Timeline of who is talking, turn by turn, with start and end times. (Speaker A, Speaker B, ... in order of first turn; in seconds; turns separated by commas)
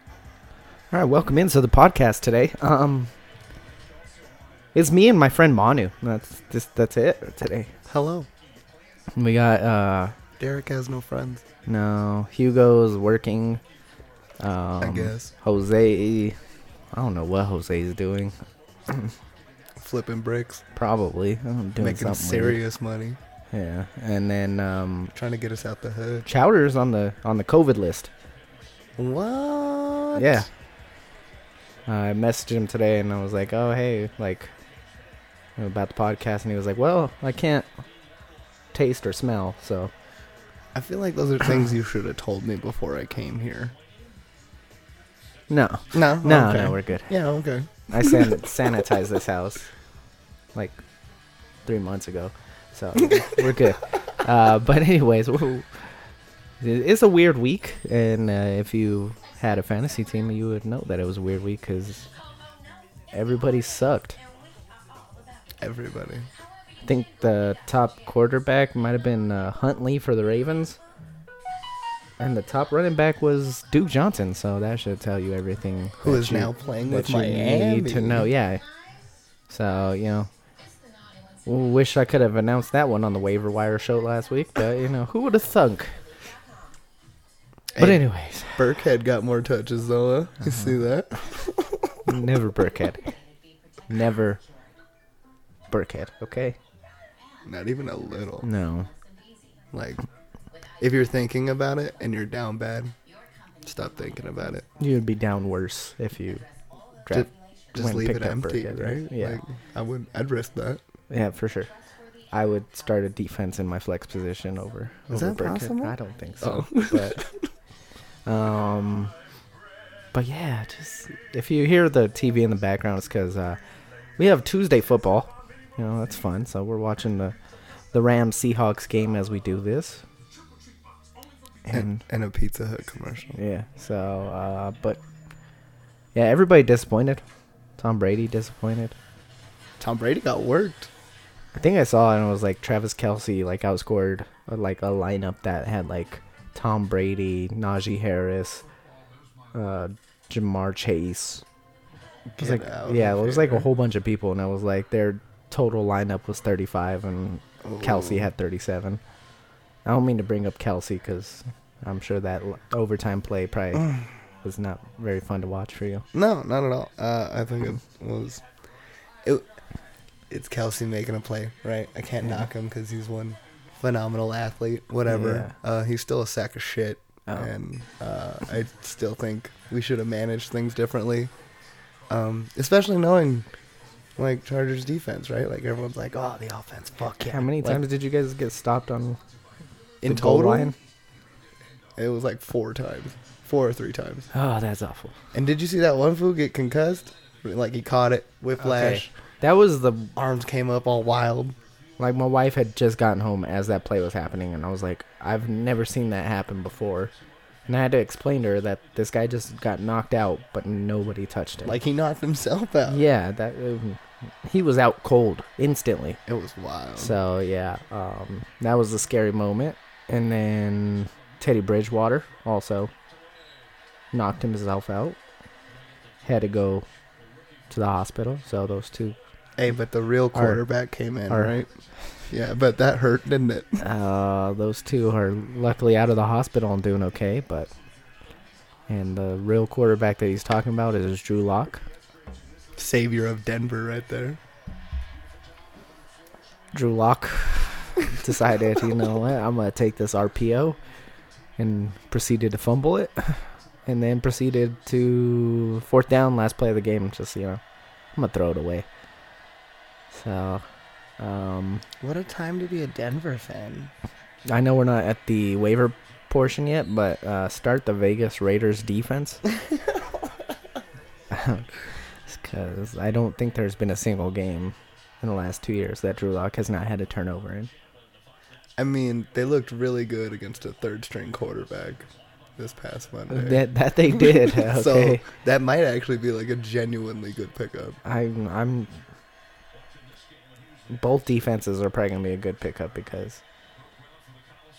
Speaker A: 0.9-3.1, Speaker A: 4.7-7.7, Speaker B: 7.9-8.3, Speaker A: 9.2-10.1, Speaker B: 10.4-11.4, Speaker A: 11.7-13.6, Speaker A: 14.4-16.4, Speaker B: 14.8-15.3, Speaker A: 16.9-18.3, Speaker A: 18.9-19.1, Speaker B: 19.8-20.6, Speaker A: 20.7-22.6, Speaker B: 21.8-23.2, Speaker A: 23.5-25.1, Speaker B: 25.1-26.3, Speaker A: 26.2-28.1, Speaker B: 29.0-30.4, Speaker A: 30.1-30.5, Speaker A: 31.9-34.5, Speaker A: 35.6-37.7, Speaker A: 38.7-39.9, Speaker B: 40.7-43.7, Speaker A: 45.5-47.1, Speaker B: 45.9-48.7, Speaker A: 47.9-49.7, Speaker A: 50.5-50.8, Speaker A: 51.6-56.0, Speaker A: 56.6-62.1, Speaker A: 63.1-64.2, Speaker B: 65.6-66.3, Speaker A: 66.8-70.8, Speaker A: 72.2-78.6, Speaker B: 76.0-78.3, Speaker A: 79.5-80.3, Speaker A: 81.5-86.0, Speaker B: 87.7-92.0, Speaker A: 87.8-88.6, Speaker A: 92.0-93.1, Speaker A: 93.9-94.4, Speaker A: 95.7-96.6, Speaker B: 97.4-98.5, Speaker A: 98.4-98.9, Speaker B: 99.7-100.0, Speaker B: 100.8-103.0, Speaker B: 103.6-104.7, Speaker A: 104.8-106.4, Speaker A: 107.0-109.4, Speaker B: 107.1-110.8, Speaker A: 111.1-111.7, Speaker A: 112.3-117.2, Speaker B: 115.1-117.3, Speaker A: 118.2-119.1, Speaker A: 120.1-123.6, Speaker A: 124.2-127.3, Speaker A: 127.9-130.0, Speaker A: 131.7-132.0, Speaker B: 131.7-133.4, Speaker A: 133.3-135.0, Speaker A: 136.1-137.2, Speaker A: 137.8-138.9, Speaker B: 139.8-140.9, Speaker A: 141.5-148.6, Speaker A: 149.5-151.4, Speaker A: 152.4-159.0, Speaker B: 152.4-153.7, Speaker B: 157.6-158.3, Speaker A: 159.8-166.0, Speaker B: 166.1-168.4, Speaker B: 170.3-181.3, Speaker A: 175.1-175.5, Speaker B: 182.1-183.5, Speaker B: 184.2-187.8, Speaker A: 187.3-189.2, Speaker B: 190.0-190.7, Speaker A: 190.0-190.7, Speaker B: 192.0-194.3, Speaker A: 194.3-195.2, Speaker B: 195.3-199.1, Speaker A: 198.6-200.1, Speaker B: 200.2-201.6, Speaker A: 202.0-207.1, Speaker A: 207.7-211.7, Speaker B: 211.6-213.0, Speaker A: 212.8-216.2, Speaker B: 216.3-217.2, Speaker A: 217.0-222.9, Speaker A: 224.1-225.2, Speaker A: 226.2-226.8, Speaker A: 227.7-229.2, Speaker B: 229.6-231.7, Speaker A: 230.3-230.6, Speaker A: 231.3-231.5, Speaker B: 232.3-233.8, Speaker A: 233.8-237.7, Speaker A: 238.9-241.9, Speaker B: 242.8-244.4, Speaker A: 246.7-250.8, Speaker A: 251.6-257.6, Speaker A: 258.1-258.9, Speaker A: 260.1-260.6, Speaker A: 261.2-261.8, Speaker B: 262.0-263.9, Speaker A: 264.5-269.4, Speaker B: 269.6-270.1, Speaker A: 271.3-277.7, Speaker B: 278.8-288.0, Speaker A: 283.3-285.2, Speaker A: 288.0-289.0, Speaker A: 290.9-293.4